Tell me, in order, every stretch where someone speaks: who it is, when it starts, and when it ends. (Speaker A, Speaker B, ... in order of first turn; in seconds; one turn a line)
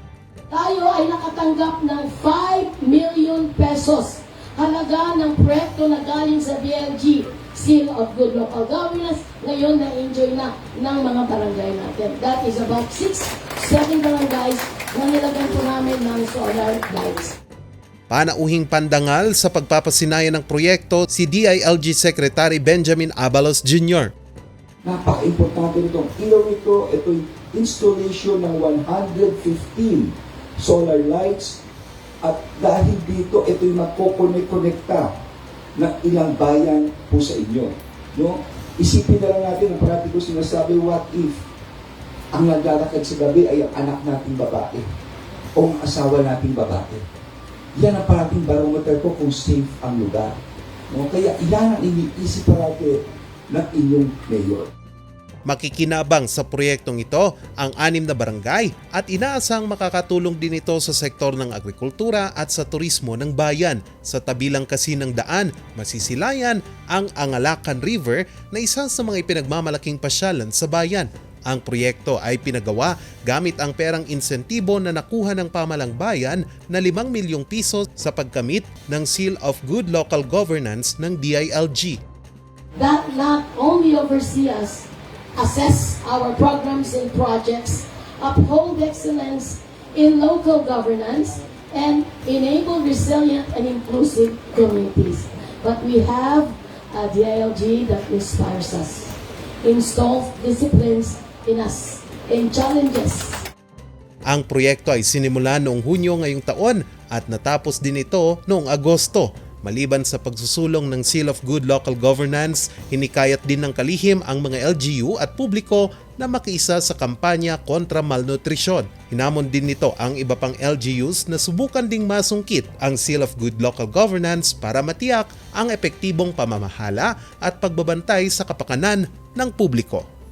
Speaker A: 0.5-17.4
Speaker B: 18.1-24.1
Speaker C: 24.8-31.6
Speaker C: 32.2-35.1
Speaker C: 35.8-41.5
Speaker C: 42.3-44.9
Speaker C: 45.5-47.0
Speaker C: 47.8-50.4
Speaker C: 50.9-54.7
Speaker B: 55.5-82.0
Speaker A: 82.8-103.4
Speaker B: 104.3-130.1